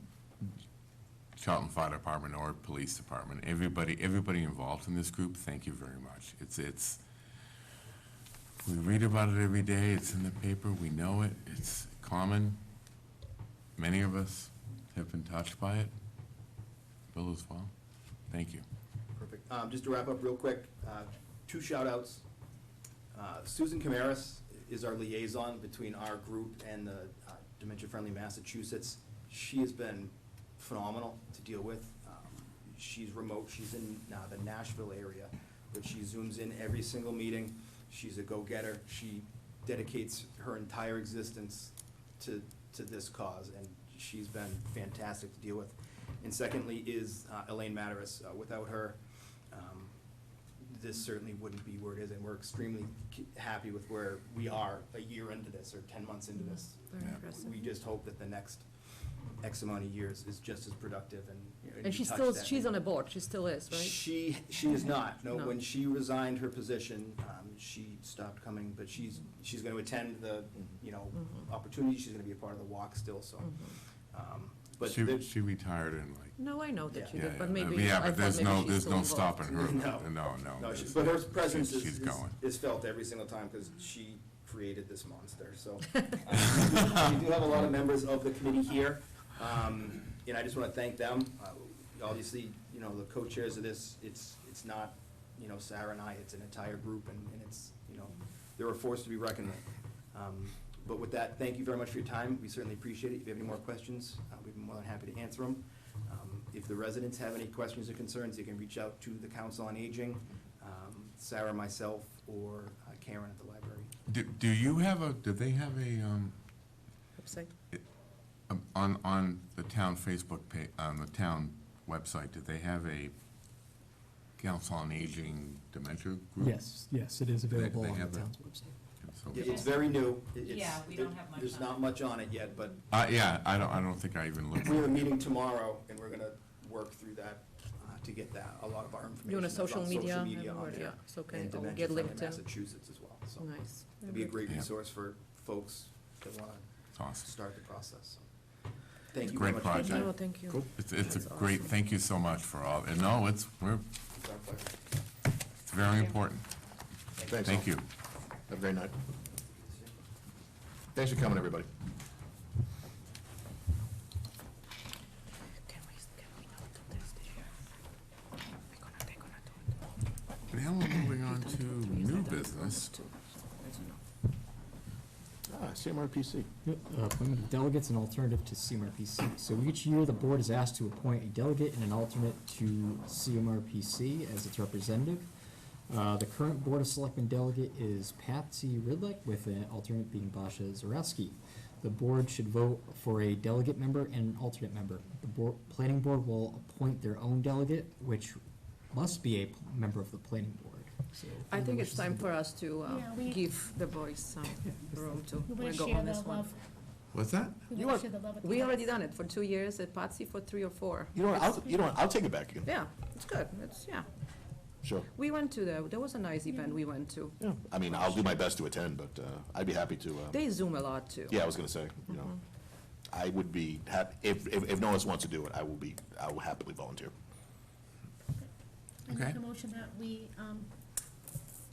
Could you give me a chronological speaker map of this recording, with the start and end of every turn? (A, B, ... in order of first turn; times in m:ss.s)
0:01.4-0:07.0 A
0:08.6-0:12.6 A
0:13.8-0:15.9 A
0:17.1-0:17.7 A
0:18.3-0:18.6 A
0:19.2-0:22.2 B
0:23.1-0:49.0 B
0:49.5-0:50.0 B
0:50.6-0:58.7 B
0:56.4-0:57.7 C
0:59.4-1:02.8 B
1:01.8-1:04.0 C
1:03.7-1:15.3 B
1:05.3-1:05.6 C
1:13.4-1:13.7 C
1:14.8-1:16.6 A
1:16.4-1:19.4 C
1:16.9-1:17.3 B
1:17.1-1:22.4 A
1:19.4-1:53.9 B
1:54.1-1:56.4 A
1:57.2-1:57.5 C
1:58.5-2:03.1 A
2:04.4-2:06.6 A
2:06.4-2:08.7 D
2:07.5-2:08.3 A
2:09.0-2:09.7 A
2:09.3-2:12.8 B
2:10.4-2:11.8 C
2:12.9-2:15.2 A
2:14.6-2:28.3 B
2:19.2-2:22.4 C
2:23.4-2:24.4 C
2:27.0-2:27.3 A
2:29.1-2:30.2 B
2:29.3-2:33.8 A
2:29.7-2:31.7 C
2:34.1-2:34.7 B
2:35.7-2:36.4 A
2:37.3-2:37.8 E
2:37.4-2:37.8 A
2:38.5-2:38.9 E
2:39.6-2:39.9 B
2:41.0-2:41.7 E
2:45.7-2:47.5 C
2:48.7-2:49.6 C
2:50.5-2:52.9 A
2:51.0-2:54.0 C
2:55.5-2:56.5 E
2:56.6-3:05.3 D
3:05.9-3:18.4 D
3:18.9-3:22.3 D
3:21.5-3:26.5 C
3:22.9-3:23.4 F
3:25.4-3:26.6 F
3:27.1-3:27.6 A
3:27.6-3:28.9 F
3:27.7-3:28.0 E
3:28.4-3:32.0 C
3:31.2-3:32.7 E
3:32.6-3:34.1 C
3:34.8-3:35.1 E
3:35.1-3:38.4 C
3:37.4-3:40.4 E
3:40.3-3:41.5 C
3:41.3-3:42.4 E
3:42.1-3:42.4 C
3:43.1-3:47.1 E
3:48.3-3:50.8 F
3:49.1-3:49.4 A